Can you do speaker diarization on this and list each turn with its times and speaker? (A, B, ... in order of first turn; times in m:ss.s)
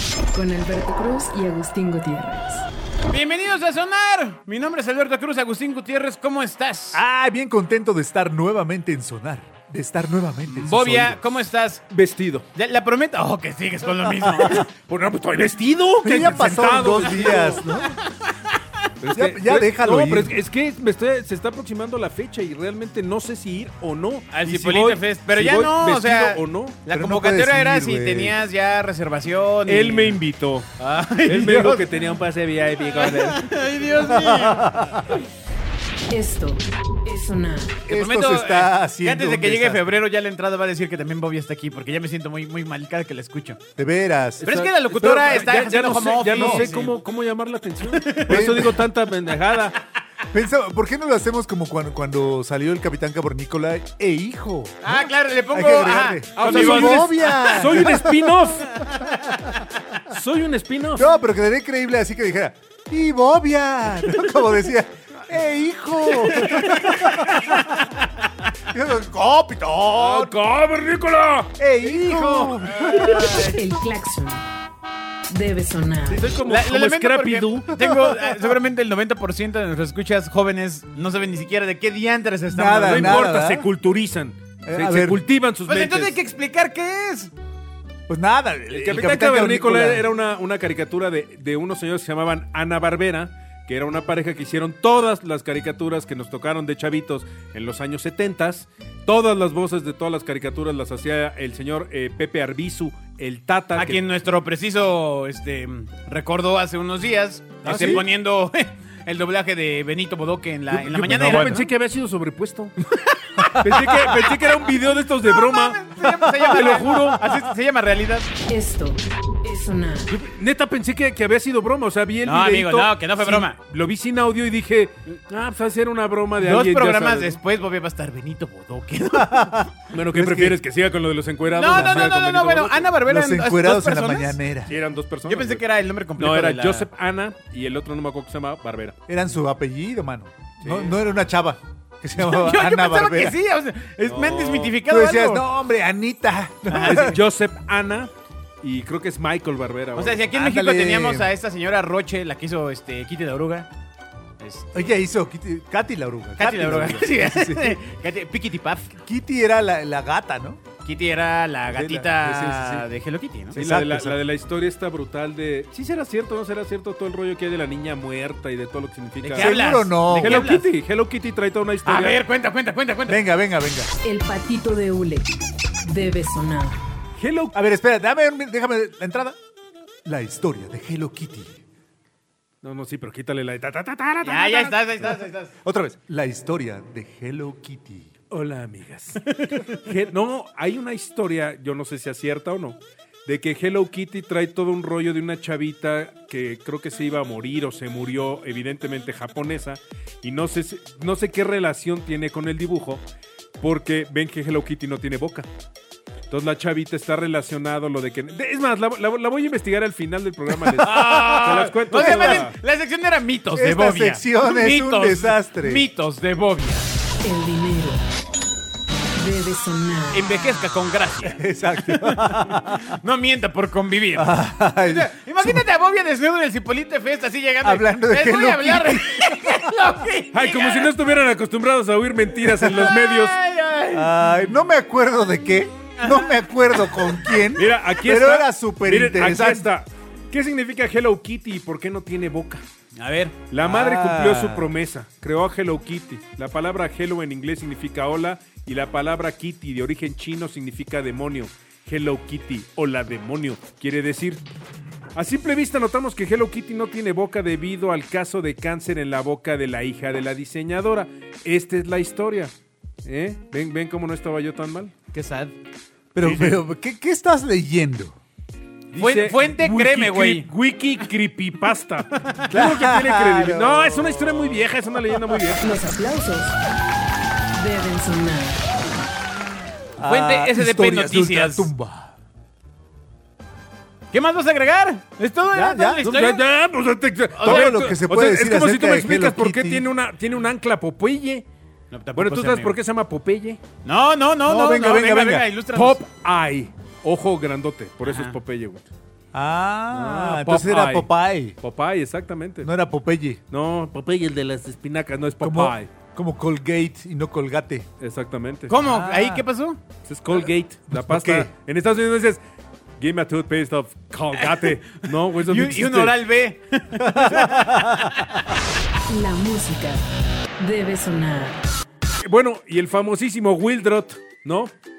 0:00.3-0:02.7 A
0:03.1-0:07.0 B
0:06.9-0:11.2 C
0:10.5-0:11.8 B
0:11.9-0:12.4 D
0:12.6-0:14.7 B
0:14.9-0:17.6 D
0:16.0-0:18.0 C
0:17.8-0:18.4 B
0:19.0-0:26.8 D
0:19.1-0:20.4 C
0:24.3-0:30.2 B
0:26.9-0:28.4 C
0:29.7-0:30.7 D
0:30.8-0:31.9 B
0:31.2-0:33.6 D
0:32.9-0:34.8 B
0:34.0-0:35.2 C
0:36.1-0:37.8 A
0:37.9-0:39.8 C
0:37.9-0:43.6 B
0:43.8-0:45.6 C
0:44.4-0:47.0 B
0:44.4-0:49.8 D
0:46.3-0:46.8 C
0:47.9-0:48.7 B
0:48.3-0:48.8 C
0:50.3-0:58.3 C
0:54.8-0:57.8 B
0:56.4-0:58.8 D
1:00.1-1:01.1 D
1:01.0-1:07.4 C
1:06.3-1:07.6 D
1:06.4-1:07.8 B
1:08.7-1:10.4 C
1:09.9-1:13.2 D
1:11.6-1:13.6 C
1:12.9-1:13.5 B
1:13.3-1:14.4 A
1:15.3-1:16.3 A
1:16.1-1:17.8 D
1:16.5-1:23.3 B
1:17.8-1:18.6 C
1:22.5-1:23.6 C
1:22.8-1:26.2 D
1:24.6-1:25.2 C
1:25.7-1:27.3 B
1:28.1-1:30.1 C
1:28.7-1:44.0 D
1:43.8-1:51.7 B
1:47.6-1:48.0 D
1:47.6-1:48.1 C
1:50.7-1:52.8 D
1:51.0-1:51.6 C
1:53.2-1:58.3 B
1:53.5-1:57.3 D
1:56.3-1:57.0 C
1:58.5-2:00.1 A
2:00.1-2:07.4 D
2:02.2-2:03.6 B
2:06.4-2:09.7 B
2:09.1-2:10.6 C
2:09.9-2:12.9 D
2:11.5-2:14.4 B
2:11.7-2:12.1 C
2:13.1-2:14.8 C
2:14.7-2:15.6 D
2:15.3-2:16.9 B
2:16.2-2:19.0 D
2:19.1-2:23.4 C
2:20.6-2:21.0 D
2:22.2-2:25.4 B
2:24.0-2:24.8 D
2:24.8-2:27.2 C
2:26.7-2:27.2 B
2:26.8-2:28.1 D
2:28.6-2:30.3 D
2:30.0-2:33.7 B
2:30.3-2:31.3 C
2:34.4-2:34.9 B
2:34.7-2:37.8 C
2:36.4-2:38.9 B
2:39.0-2:40.6 C
2:40.8-2:43.6 B
2:41.7-2:42.8 C
2:43.5-2:44.2 C
2:43.6-2:49.6 D
2:49.2-2:50.7 B
2:49.4-2:50.5 C
2:50.2-2:52.2 D
2:51.8-2:53.2 B
2:53.1-2:53.9 C
2:54.0-2:55.3 A
2:55.8-2:56.8 A
2:57.2-2:57.6 D
2:57.5-2:59.4 C
3:00.0-3:01.6 C
3:02.6-3:04.8 D
3:04.2-3:05.5 B
3:05.6-3:08.1 C
3:08.3-3:23.0 D
3:09.4-3:09.7 B
3:23.6-3:25.5 D
3:26.3-3:32.6 D
3:30.7-3:36.9 B
3:31.4-3:32.4 C
3:33.6-3:35.8 C
3:37.2-3:38.0 A
3:39.1-3:40.3 A
3:40.1-3:50.9 B
3:41.2-3:42.9 C
3:44.2-3:45.6 C
3:47.6-3:49.7 C
3:50.3-3:53.4 D
3:52.5-3:52.8 C
3:52.7-3:54.1 B
3:53.9-3:59.7 C
3:56.0-3:56.4 B
3:57.6-4:02.6 D
4:03.0-4:03.4 B
4:03.5-4:14.4 D
4:03.6-4:04.7 C
4:15.2-4:22.5 D
4:23.0-4:24.9 D
4:25.1-4:25.6 B
4:26.2-4:28.2 C
4:26.2-4:26.6 D
4:28.9-4:35.6 D
4:29.0-4:30.5 B
4:32.5-4:34.6 C
4:35.6-4:36.6 A
4:37.5-4:38.6 A
4:40.0-4:42.1 C
4:40.0-4:41.7 B
4:44.1-4:46.4 B
4:45.5-4:46.0 C
4:46.0-4:51.4 D
4:47.3-4:47.7 B
4:47.4-4:49.9 C
4:51.9-4:52.8 B
4:52.1-4:53.6 D
4:53.8-4:56.0 B
4:54.4-4:55.5 C
4:55.7-4:58.8 D
4:58.0-4:58.4 B
4:59.3-5:01.6 C
4:59.9-5:01.1 D
5:01.6-5:02.7 D
5:02.6-5:03.4 C
5:03.5-5:05.9 D
5:05.4-5:07.9 C
5:08.0-5:08.8 D
5:08.7-5:09.8 B
5:08.8-5:09.4 C
5:10.1-5:12.4 D
5:10.9-5:11.5 C
5:13.0-5:16.2 D
5:14.4-5:14.7 B
5:15.4-5:18.5 B
5:17.0-5:18.2 C
5:19.1-5:20.0 A
5:20.6-5:21.6 A
5:22.2-5:24.7 D